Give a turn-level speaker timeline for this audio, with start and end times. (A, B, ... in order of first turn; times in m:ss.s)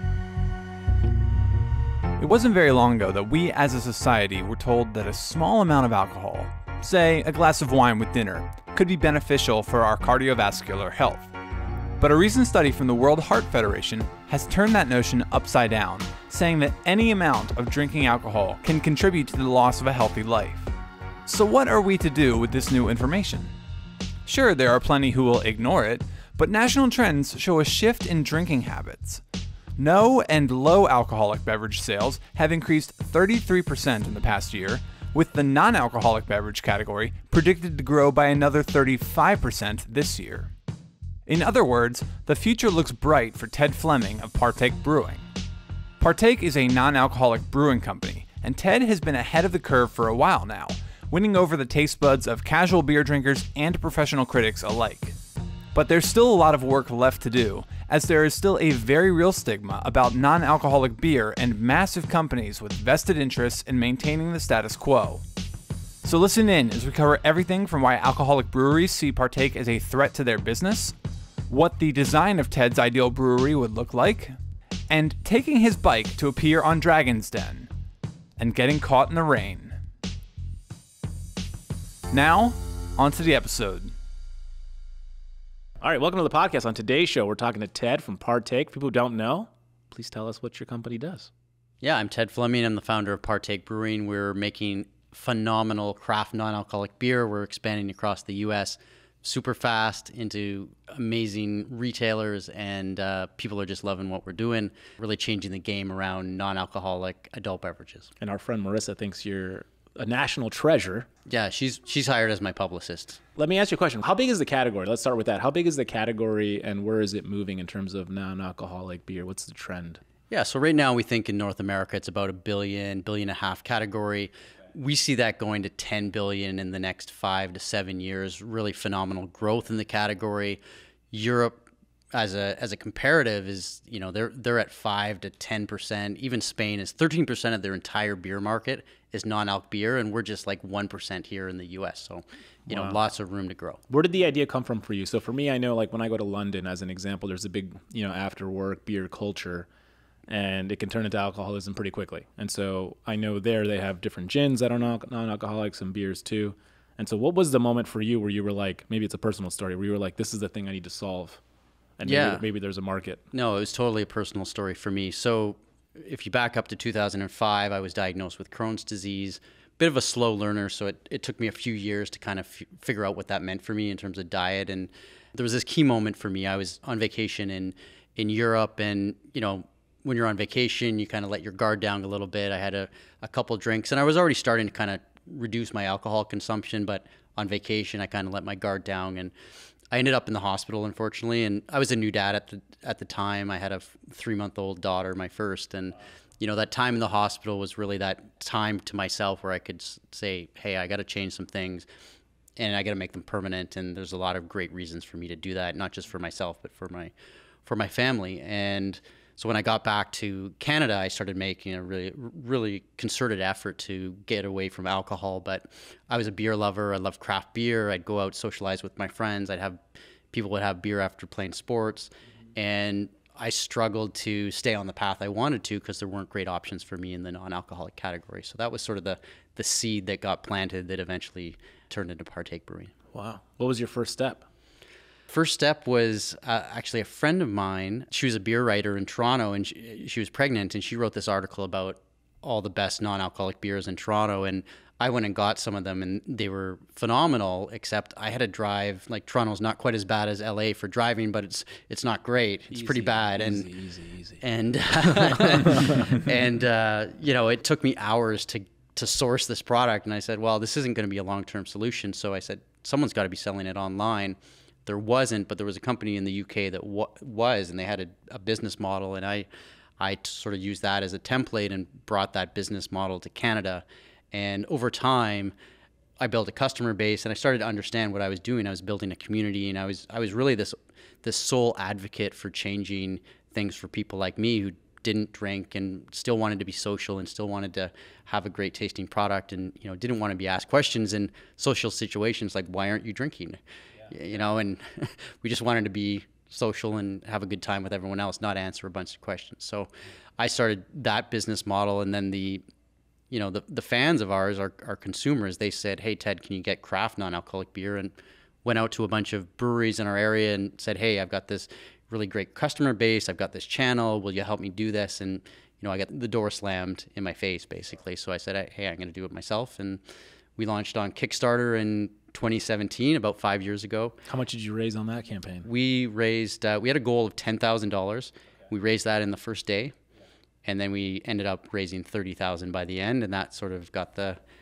0:02.2-0:11.3 A
0:12.0-0:20.7 A
0:21.3-0:23.5 A
0:24.3-0:29.2 A
0:29.8-0:40.5 A
0:41.3-0:45.3 A
0:46.0-0:55.2 A
0:55.7-1:05.2 A
1:06.0-1:11.0 A
1:11.5-1:14.4 A
1:14.9-1:17.7 A
1:18.4-1:19.8 A
1:22.1-1:23.9 A
1:25.8-1:31.3 B
1:31.8-1:48.1 C
1:48.2-1:51.1 B
1:51.3-1:53.2 C
1:53.4-2:00.0 B
2:00.3-2:10.6 C
2:11.1-2:23.8 C
2:22.7-2:23.0 B
2:23.9-2:29.7 B
2:30.3-2:41.4 B
2:42.0-2:43.2 B
2:42.0-2:42.4 C
2:43.3-3:09.3 C
3:09.9-3:21.9 C
3:22.6-3:27.1 C
3:27.6-3:39.8 C
3:40.3-3:52.9 C
3:53.1-3:54.5 B
3:55.3-4:13.7 C
4:12.7-4:14.4 B
4:14.4-4:29.5 C
4:15.0-4:16.2 B
4:30.0-4:35.5 C
4:36.2-5:02.6 C
5:03.3-5:20.0 C
5:20.6-5:24.2 C
5:24.3-5:25.7 B
5:25.6-5:30.0 C
5:30.6-5:34.4 C